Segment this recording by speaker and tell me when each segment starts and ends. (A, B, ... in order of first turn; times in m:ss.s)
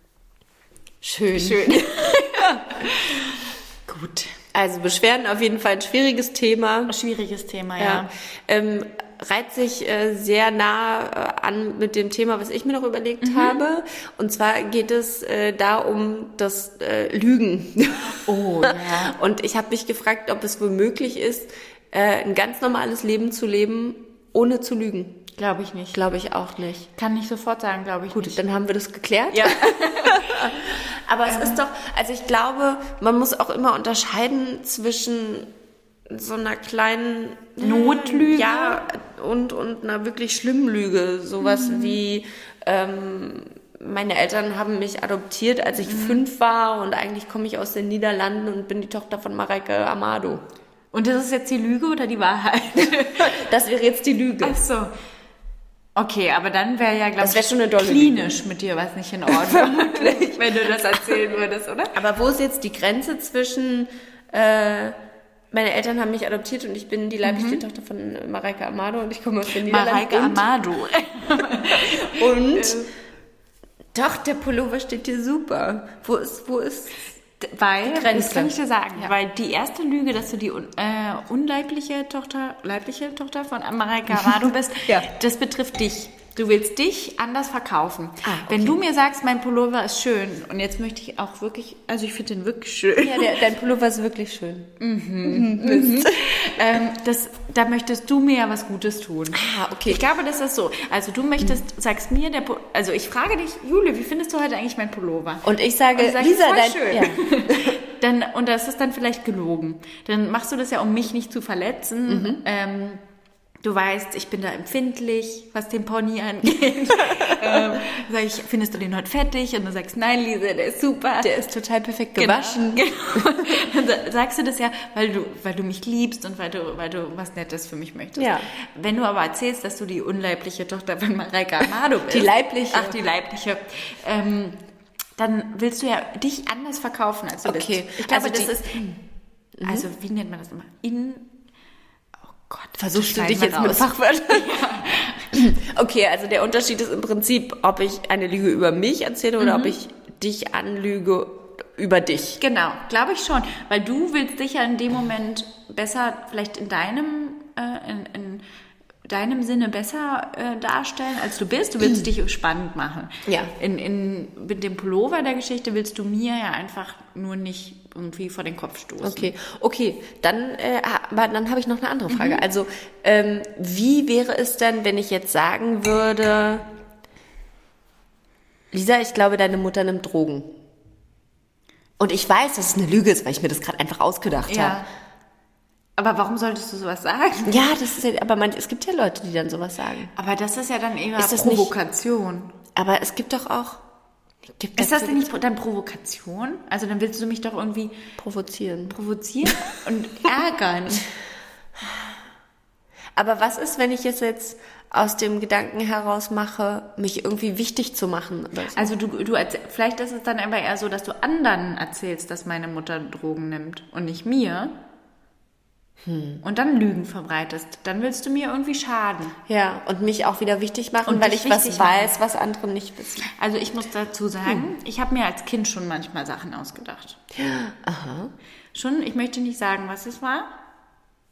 0:01.0-0:02.6 A
0:01.3-0:04.3 B
0:04.5-0:06.9 A
0:06.9-0:08.1 B
0:07.8-0:25.3 A
0:13.2-0:13.6 B
0:18.2-0:19.2 B
0:25.4-0:26.0 B
0:25.9-0:26.9 A
0:27.0-0:28.4 B
0:28.1-0:35.5 A
0:29.3-0:30.5 B
0:31.2-0:31.6 B
0:36.1-0:50.4 A
0:37.6-0:38.8 B
0:41.4-0:42.0 B
0:45.8-0:46.2 B
0:50.9-0:53.4 B
0:53.2-0:54.6 A
0:54.4-0:54.9 B
0:56.0-1:02.0 B
0:57.2-0:58.4 A
0:59.3-1:01.2 A
1:01.9-1:05.0 A
1:05.5-1:10.4 A
1:07.2-1:07.6 B
1:09.6-1:12.9 B
1:11.8-1:12.8 A
1:13.9-1:17.0 A
1:17.4-1:33.4 B
1:17.8-1:19.1 A
1:28.2-1:28.8 A
1:33.0-1:36.3 A
1:34.8-1:53.0 B
1:39.3-1:40.0 A
1:45.4-1:47.8 A
1:52.1-1:52.4 A
1:53.6-2:01.5 B
2:01.2-2:03.2 A
2:02.2-2:14.6 B
2:08.2-2:08.5 A
2:12.1-2:13.0 A
2:15.2-2:18.9 B
2:17.4-2:19.0 A
2:19.6-2:19.8 A
2:19.6-2:21.3 B
2:22.3-2:25.4 B
2:22.8-2:24.6 A
2:25.3-2:32.4 A
2:29.4-2:29.7 B
2:32.4-2:38.4 B
2:39.0-2:49.3 B
2:43.2-2:43.5 A
2:49.0-2:56.7 A
2:52.1-2:52.4 B
2:58.7-3:00.6 A
3:02.0-3:04.8 A
3:04.5-3:04.9 B
3:06.0-3:07.7 B
3:07.4-3:10.1 A
3:10.1-3:12.5 B
3:11.2-3:11.7 A
3:12.7-3:13.8 A
3:14.5-3:15.3 A
3:14.8-3:18.0 B
3:18.2-3:19.0 A
3:18.9-3:21.1 B
3:23.2-3:28.9 A
3:28.7-3:34.8 B
3:36.0-3:36.4 A
3:36.4-3:39.4 B
3:39.5-3:43.3 A
3:41.0-3:42.1 B
3:43.3-3:47.2 B
3:47.3-3:48.3 A
3:48.7-3:50.5 B